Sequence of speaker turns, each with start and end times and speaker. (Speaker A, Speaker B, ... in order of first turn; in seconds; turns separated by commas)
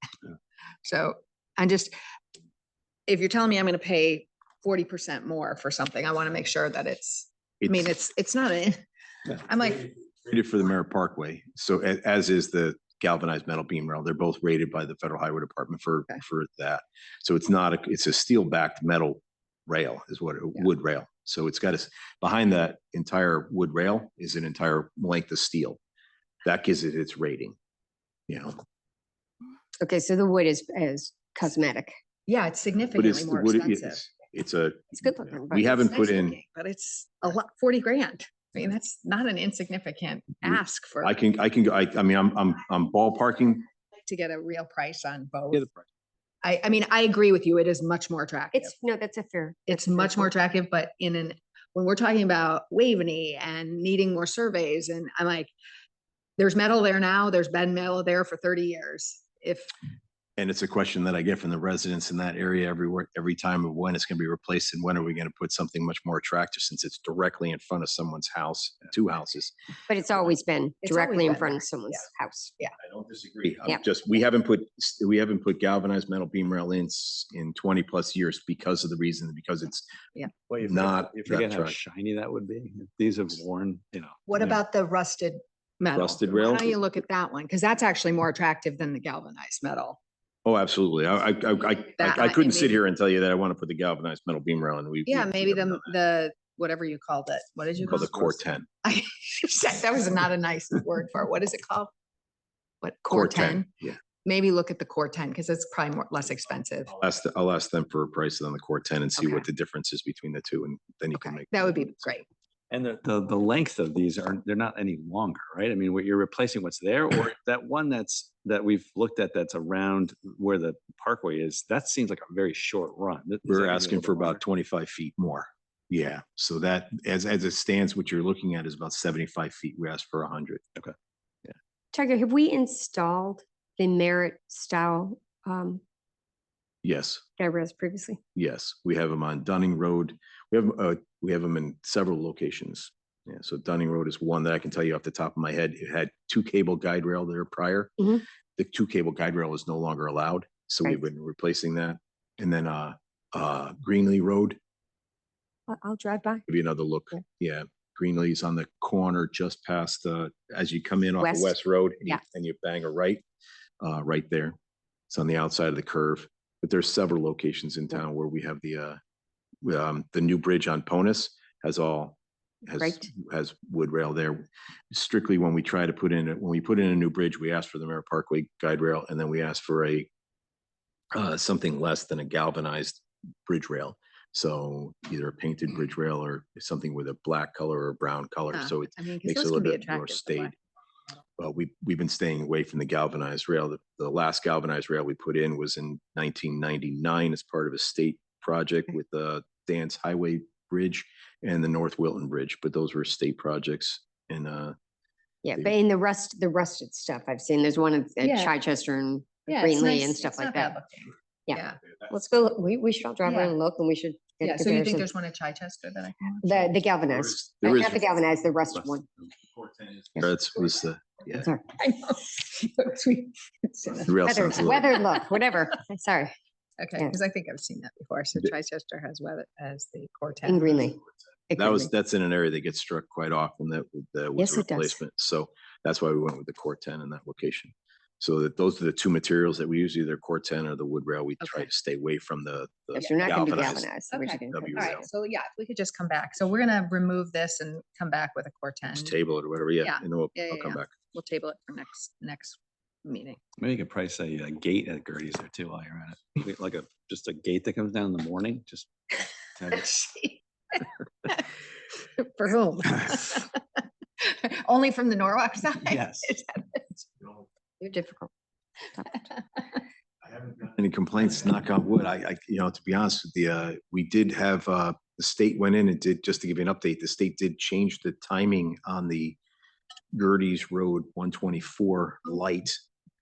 Speaker A: 0.8-1.9, Speaker A: 3.1-9.9, Speaker B: 10.2-25.8, Speaker B: 26.4-27.6, Speaker B: 28.3-28.6, Speaker C: 29.8-31.9, Speaker A: 32.3-34.0, Speaker B: 33.0-36.4, Speaker C: 35.0-35.7, Speaker A: 35.7-41.1, Speaker B: 40.4-43.6, Speaker A: 44.0-45.7, Speaker B: 45.5-45.8, Speaker A: 46.4-48.7, Speaker C: 48.5-50.3, Speaker A: 49.7-55.5, Speaker A: 56.4-59.7, Speaker B: 60.4-69.5, Speaker C: 69.9-72.5, Speaker A: 70.8-72.0, Speaker B: 72.8-79.9, Speaker D: 80.5-84.3, Speaker B: 80.6-81.8, Speaker A: 84.3-90.0, Speaker B: 85.9-86.7, Speaker B: 90.5-95.9, Speaker A: 92.0-92.8, Speaker A: 95.1-98.3, Speaker B: 97.9-98.7, Speaker A: 98.8-101.9, Speaker A: 102.8-103.7, Speaker B: 103.1-104.0, Speaker A: 104.2-106.9, Speaker B: 107.0-112.2, Speaker A: 109.2-109.5, Speaker A: 111.2-112.2, Speaker D: 112.7-124.4, Speaker B: 123.5-130.6, Speaker C: 131.9-135.8, Speaker B: 136.8-137.2, Speaker C: 137.4-138.2, Speaker B: 138.4-154.6, Speaker C: 155.7-156.4, Speaker B: 156.5-163.2, Speaker C: 161.2-161.5, Speaker B: 163.8-164.6, Speaker B: 165.1-169.0, Speaker B: 169.6-180.1, Speaker C: 172.8-173.1, Speaker B: 181.1-190.6, Speaker A: 188.5-190.6, Speaker B: 191.4-204.8, Speaker C: 205.4-210.7, Speaker A: 208.2-208.5, Speaker A: 209.5-211.8, Speaker C: 211.5-215.1, Speaker A: 213.2-213.5, Speaker A: 214.4-216.7, Speaker C: 216.4-219.1, Speaker B: 217.1-218.2, Speaker B: 219.4-221.5, Speaker A: 221.8-224.9, Speaker B: 224.0-224.9, Speaker C: 224.2-226.3, Speaker A: 226.8-230.9, Speaker C: 230.5-231.0, Speaker C: 231.5-231.9, Speaker B: 231.6-243.9, Speaker C: 234.4-235.0, Speaker A: 241.4-241.7, Speaker C: 242.9-245.1, Speaker A: 243.0-249.1, Speaker B: 244.5-245.1, Speaker B: 248.9-250.9, Speaker A: 249.8-253.4, Speaker D: 253.6-259.9, Speaker A: 259.7-261.5, Speaker A: 262.2-267.0, Speaker D: 265.9-266.3, Speaker B: 267.2-267.5, Speaker C: 267.8-268.3, Speaker C: 268.8-269.3, Speaker B: 270.2-279.4, Speaker B: 280.1-282.8